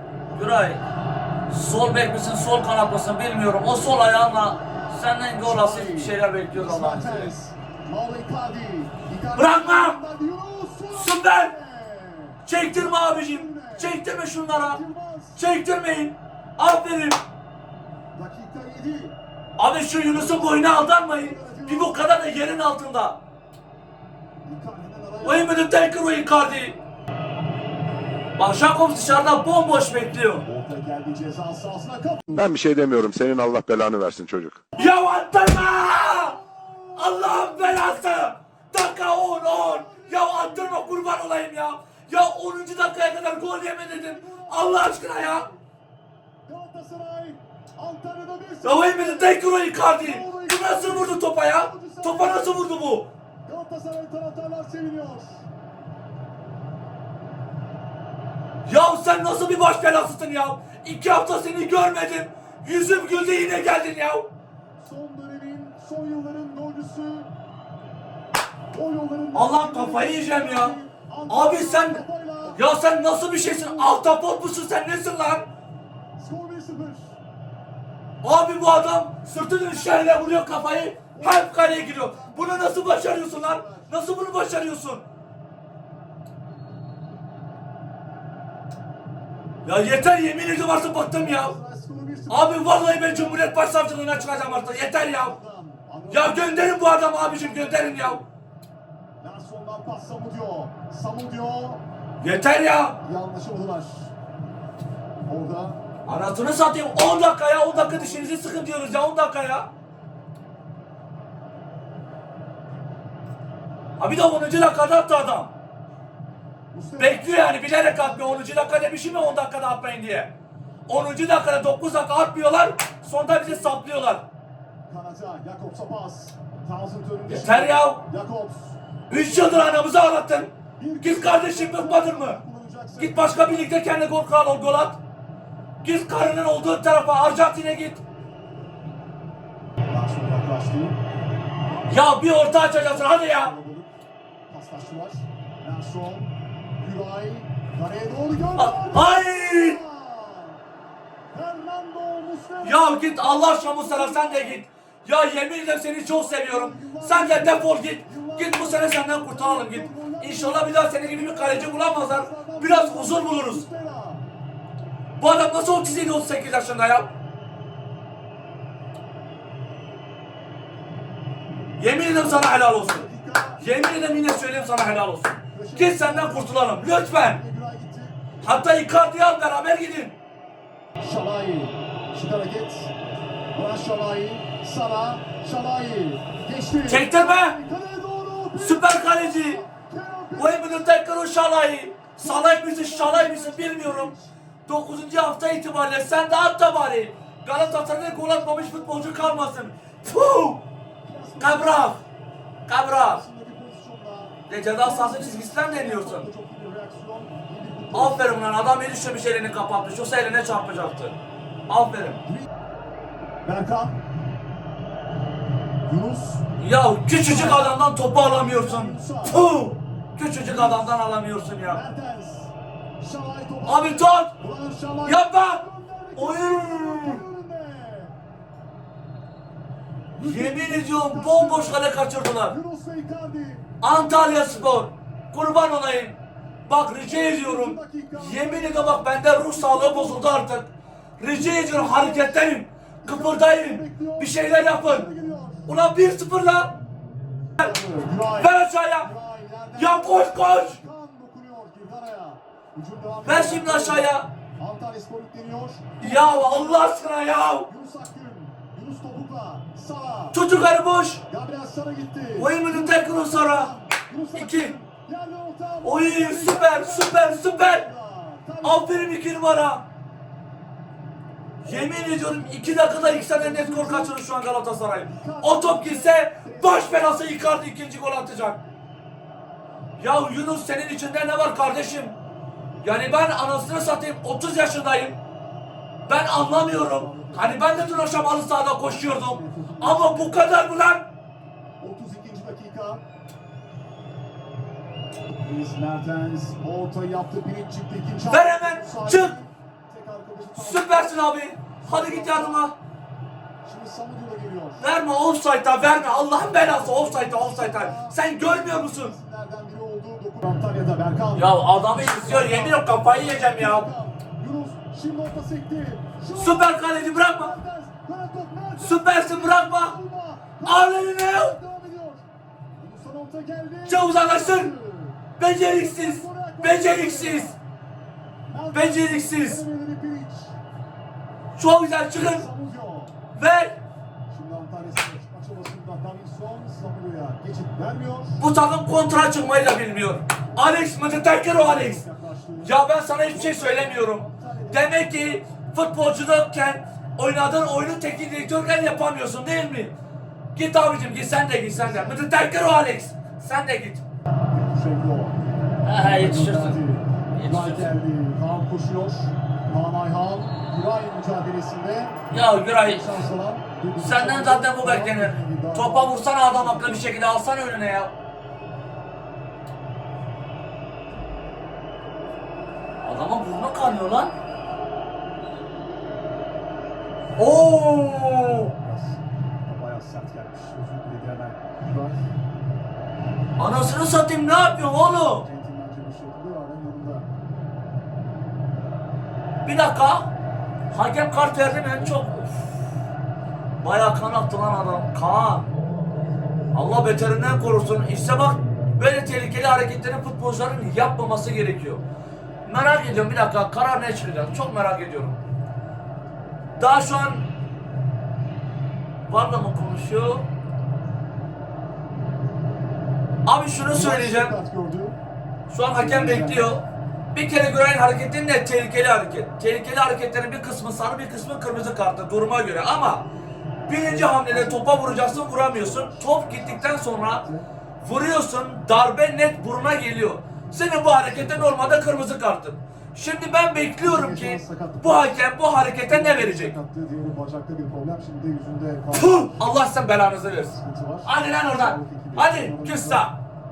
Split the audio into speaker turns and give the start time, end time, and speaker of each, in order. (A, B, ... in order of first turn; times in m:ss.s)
0:00.3-0:00.8 A
0:01.5-0:07.3 A
0:05.4-0:15.4 B
0:09.4-0:10.0 A
0:10.9-0:11.5 A
0:12.5-0:14.8 A
0:15.4-0:17.2 A
0:18.2-0:19.2 B
0:19.6-0:23.2 A
0:20.1-0:22.3 B
0:24.5-0:25.6 B
0:25.2-0:26.8 A
0:28.4-0:30.4 A
0:30.4-0:32.5 B
0:32.3-0:34.6 C
0:34.8-0:36.4 A
0:36.0-0:38.0 B
0:37.0-0:45.5 A
0:39.4-0:41.1 B
0:43.9-0:45.6 B
0:46.5-0:52.8 B
0:48.6-0:53.1 A
0:53.5-0:55.4 B
0:58.7-1:04.3 A
1:04.8-1:07.3 B
1:08.7-1:12.6 B
1:09.3-1:10.8 A
1:11.3-1:15.5 A
1:13.4-1:14.0 B
1:16.2-1:17.2 B
1:18.2-1:25.0 A
1:19.6-1:20.5 B
1:21.1-1:23.9 B
1:29.6-1:31.6 A
1:31.2-1:38.3 B
1:32.3-1:35.4 A
1:36.1-1:38.2 A
1:39.2-1:41.8 B
1:42.2-1:43.0 A
1:43.0-1:44.1 B
1:45.3-1:45.8 B
1:46.1-1:49.7 A
1:47.7-1:48.7 B
1:54.0-1:55.5 A
1:56.7-1:59.4 B
1:57.0-2:00.3 A
2:00.9-2:04.2 A
2:03.4-2:03.8 B
2:04.9-2:09.9 B
2:07.3-2:08.0 A
2:09.1-2:12.4 A
2:10.8-2:13.7 B
2:13.0-2:15.0 A
2:15.8-2:18.0 A
2:19.9-2:21.0 B
2:21.9-2:23.5 A
2:22.5-2:23.9 B
2:24.5-2:30.6 B
2:28.6-2:29.8 A
2:31.3-2:34.6 B
2:32.6-2:43.6 A
2:36.0-2:44.2 B
2:45.2-2:47.1 A
2:51.8-2:53.1 A
2:52.2-2:55.0 B
2:53.6-2:57.4 A
2:55.5-2:58.2 B
2:58.4-3:00.2 A
3:01.0-3:02.9 B
3:03.6-3:10.9 B
3:06.9-3:07.6 A
3:08.6-3:09.6 A
3:10.4-3:14.1 A
3:12.2-3:14.3 B
3:14.7-3:20.6 A
3:17.5-3:19.7 B
3:21.0-3:22.0 B
3:21.4-3:22.0 A
3:22.7-3:23.2 A
3:22.9-3:28.3 B
3:24.5-3:26.3 A
3:27.9-3:31.2 A
3:31.7-3:32.2 A
3:33.4-3:34.0 B
3:35.9-3:36.5 B
3:36.6-3:41.8 A
3:37.1-3:39.5 B
3:40.4-3:41.0 B
3:41.7-3:48.1 B
3:43.7-3:44.3 A
3:45.0-3:45.6 A
3:46.2-3:47.2 A
3:50.2-3:51.9 B
3:50.2-3:52.6 A
3:52.5-3:54.9 B
3:53.8-3:56.2 A
3:56.7-4:05.1 A
3:57.1-4:00.3 B
4:01.3-4:02.5 B
4:03.0-4:05.7 B
4:05.7-4:06.8 A
4:07.6-4:16.9 B
4:08.3-4:09.1 A
4:09.8-4:10.8 A
4:13.2-4:14.3 A
4:16.0-4:17.7 A
4:17.7-4:20.4 B
4:20.3-4:21.2 A
4:21.3-4:29.2 B
4:22.4-4:23.7 A
4:24.3-4:24.7 A
4:25.8-4:27.9 A
4:28.6-4:29.8 A
4:31.6-4:38.6 A
4:31.6-4:34.2 B
4:35.0-4:37.5 B
4:40.0-4:42.2 A
4:42.8-4:45.2 A
4:46.1-4:51.1 A
4:46.2-4:50.5 B
4:51.8-4:53.0 B
4:55.4-5:01.3 B
4:58.3-4:59.4 A
5:00.6-5:02.7 A
5:01.8-5:02.7 B
5:03.6-5:04.9 B
5:04.8-5:09.2 A
5:05.8-5:22.3 B
5:11.3-5:13.9 A
5:16.4-5:17.6 A
5:18.8-5:20.0 A
5:20.6-5:21.6 A
5:22.8-5:27.6 B
5:23.9-5:24.7 A
5:25.4-5:27.5 A
5:28.5-5:30.6 B
5:28.7-5:29.6 A
5:31.6-5:32.5 A
5:32.1-5:33.2 B
5:33.4-5:33.8 A
5:34.3-5:38.4 B
5:38.4-5:42.0 A
5:41.1-5:42.8 B
5:42.6-5:50.0 A
5:43.3-5:45.4 B
5:50.5-5:54.0 A
5:51.7-5:52.2 B
5:54.5-5:55.4 B
5:55.8-5:56.8 A
5:55.9-6:02.2 B
5:57.4-5:57.9 A
6:02.3-6:03.2 A
6:02.8-6:07.1 B
6:04.0-6:08.1 A
6:13.0-6:14.3 A
6:17.4-6:18.7 A
6:18.2-6:22.2 B
6:23.6-6:25.5 A
6:25.4-6:27.3 B
6:29.6-6:30.3 A
6:30.9-6:32.7 A
6:33.8-6:35.7 A
6:36.7-6:42.0 A
6:42.6-6:45.4 A
6:46.8-6:47.4 A
6:49.3-6:50.5 A
6:53.5-6:54.6 A
6:53.9-6:55.2 B
6:55.7-6:56.8 A
6:56.0-6:56.8 B
6:57.3-7:03.2 A
7:03.9-7:07.4 A
7:03.9-7:07.7 B
7:08.0-7:16.8 A
7:11.1-7:12.3 B
7:14.0-7:15.5 B
7:16.0-7:19.7 B
7:19.1-7:20.7 A
7:20.6-7:23.3 B
7:21.2-7:23.3 A